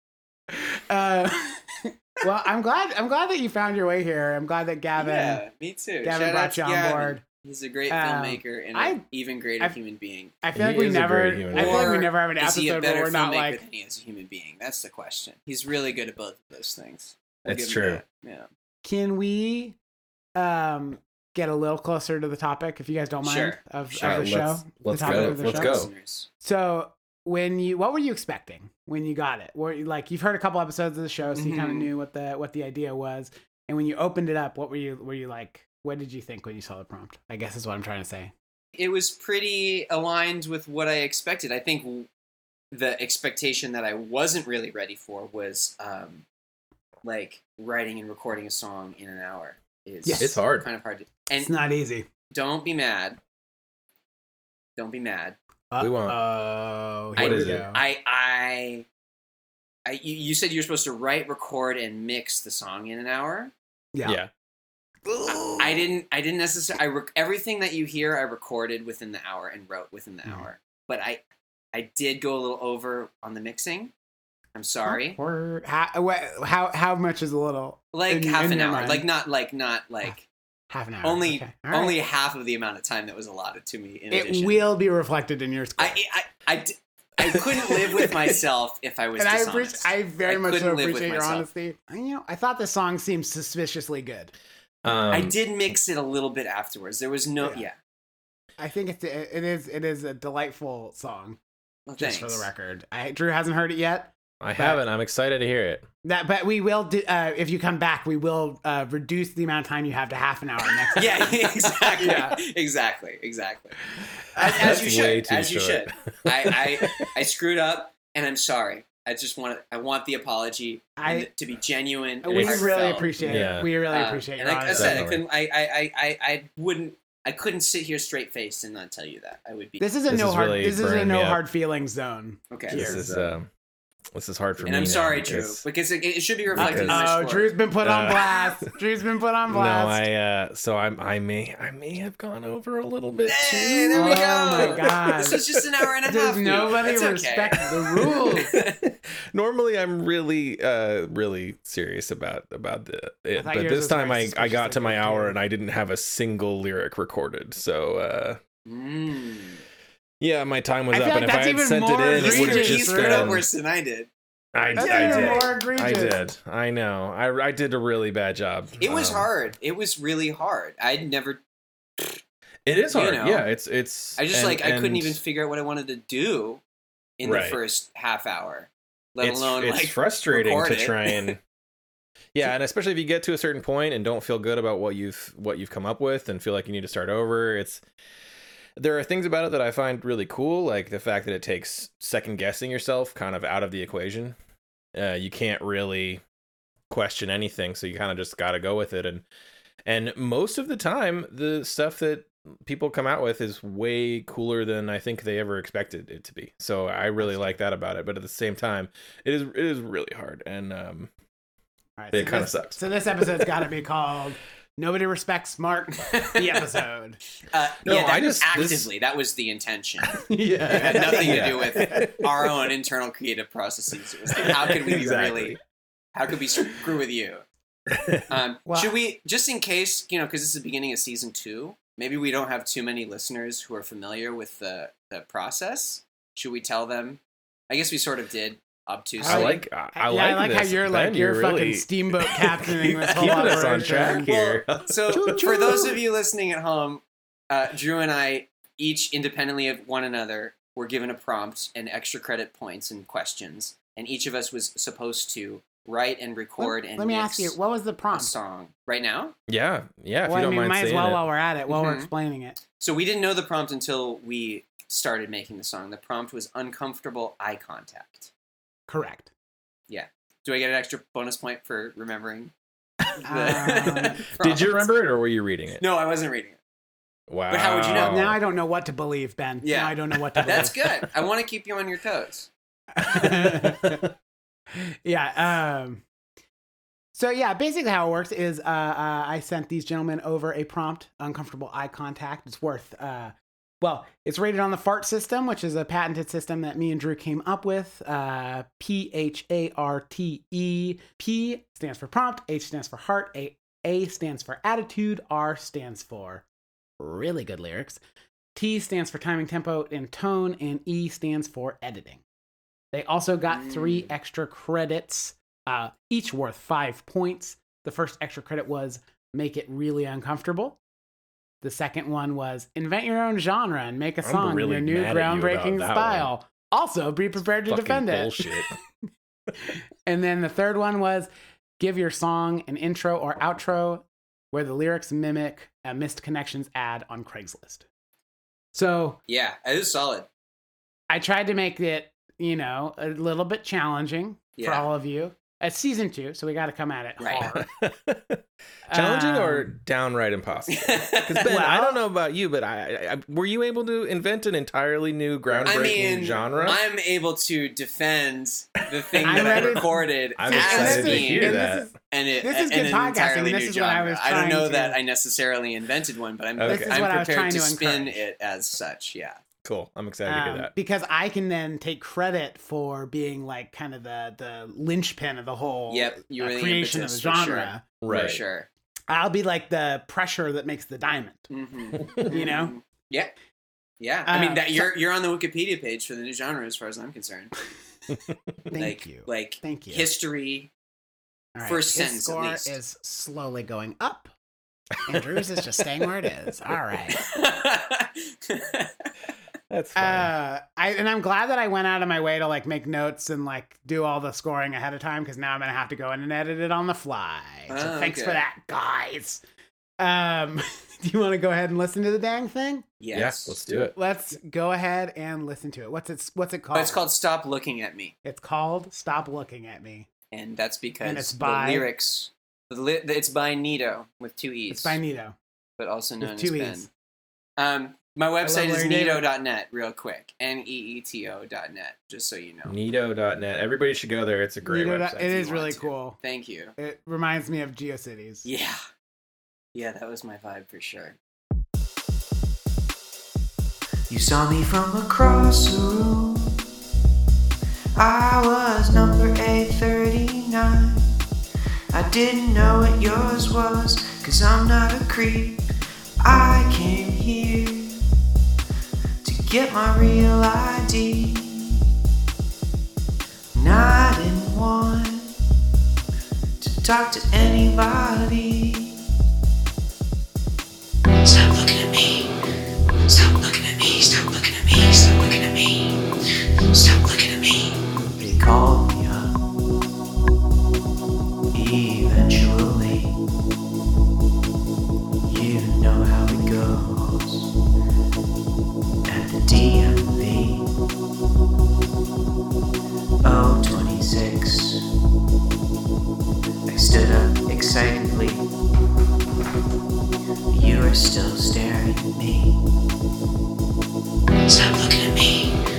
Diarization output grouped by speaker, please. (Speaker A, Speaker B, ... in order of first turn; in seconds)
Speaker A: 0.5-5.4, 6.0-7.2, 7.9-9.0, 10.4-13.6, 18.8-19.8, 20.4-25.9, 26.4-38.3, 50.0-50.4, 51.4-52.1, 55.7-57.8, 63.9-64.2, 65.1-65.9, 74.9-79.1, 80.7-82.0, 84.1-86.0, 89.2-94.3, 98.6-101.4, 102.0-104.8, 106.0-111.4, 112.0-112.4, 114.3-114.7, 121.0-121.3, 122.2-125.1, 129.8-133.1, 136.6-140.1, 143.9-145.4, 146.1-148.5, 153.4-155.4, 160.9-163.4, 164.8-166.2, 207.2-207.5, 212.0-217.2, 220.3-222.0, 228.7-229.0, 239.2-244.3, 245.1-246.0, 256.6-258.3, 260.3-262.6, 268.9-269.3, 273.2-274.2, 277.9-280.8, 282.9-284.1, 284.7-286.0, 287.1-306.4, 307.0-308.0, 308.6-312.2, 312.9-320.8, 321.6-328.6, 329.6-337.9, 338.7-339.2, 341.1-347.7, 348.9-349.7, 351.4-352.0, 359.2-365.0, 366.7-368.2, 370.3-377.8, 379.1-381.5, 382.3-382.7, 384.3-384.9, 388.7-390.1, 391.6-394.3, 395.1-397.2, 400.0-409.4, 410.0-412.9, 413.9-417.0, 418.2-420.1, 421.0-421.9, 424.7-425.4, 426.2-426.9, 428.4-429.3, 434.6-436.2, 436.8-438.5
Speaker B: 5.0-10.3, 11.5-18.5, 23.2-23.6, 25.0-26.3, 31.4-31.9, 38.8-42.1, 42.7-46.2, 47.0-51.5, 52.3-53.2, 54.8-55.4, 57.2-58.9, 59.9-63.5, 65.5-71.2, 71.7-73.9, 74.5-75.2, 77.9-80.3, 81.0-84.6, 85.8-91.5, 95.1-97.7, 101.9-102.5, 111.0-113.8, 114.4-129.8, 132.5-133.0, 134.6-137.5, 143.2-148.8, 158.7-159.6, 162.1-164.1, 164.6-165.5, 168.8-171.4, 172.9-173.4, 174.2-176.6, 177.2-181.3, 216.3-216.6, 217.5-220.2, 220.7-225.6, 226.1-227.4, 228.3-239.6, 242.9-257.6, 258.1-259.3, 261.7-262.1, 262.8-268.3, 269.9-272.5, 273.2-274.9, 275.8-276.6, 277.5-278.2, 279.6-282.5, 313.5-314.1, 339.3-340.3, 344.6-344.9, 347.2-347.5, 350.7-351.5, 355.6-369.4, 375.9-378.7, 381.5-383.3, 384.0-387.5, 388.8-390.7, 391.6-392.8, 397.1-399.1, 407.7-408.4, 413.0-413.6, 416.7-418.1, 420.3-425.0, 425.8-426.9, 427.6-432.8, 435.4-436.8, 438.4-438.8, 439.7-441.2
Speaker C: 10.6-11.9, 17.5-18.0, 23.9-25.9, 50.2-50.7, 55.8-56.2, 57.2-57.6, 64.0-64.3, 94.8-95.3, 104.4-105.9, 114.5-117.1, 122.3-123.7, 124.7-125.2, 130.1-131.4, 132.7-133.5, 134.1-135.6, 136.5-137.1, 137.8-138.2, 139.5-144.9, 149.3-158.4, 160.2-163.5, 164.5-169.3, 172.7-175.2, 177.2-177.6, 179.2-181.4, 182.3-187.8, 188.8-194.4, 194.9-196.2, 196.9-199.2, 199.9-211.1, 212.1-213.6, 217.8-218.9, 220.6-222.3, 224.4-225.6, 227.9-228.3, 239.2-245.3, 259.5-261.2, 274.4-275.8, 277.3-278.4, 283.1-284.1, 324.2-326.3, 327.7-328.7, 347.4-356.8, 359.2-359.8, 360.4-361.9, 366.6-367.1, 369.6-370.7, 378.0-378.4, 382.0-382.3, 388.1-388.6, 399.7-400.3, 413.1-413.9, 432.7-435.5
Speaker D: 444.1-446.6, 448.0-451.1, 451.9-455.6, 456.2-458.0, 459.2-461.8, 463.6-465.3, 466.6-469.0, 471.2-472.3, 473.1-476.0, 476.7-479.4, 481.5-483.2, 485.2-487.5, 489.1-490.7, 493.2-494.8, 496.7-498.4, 500.5-502.6, 504.5-505.6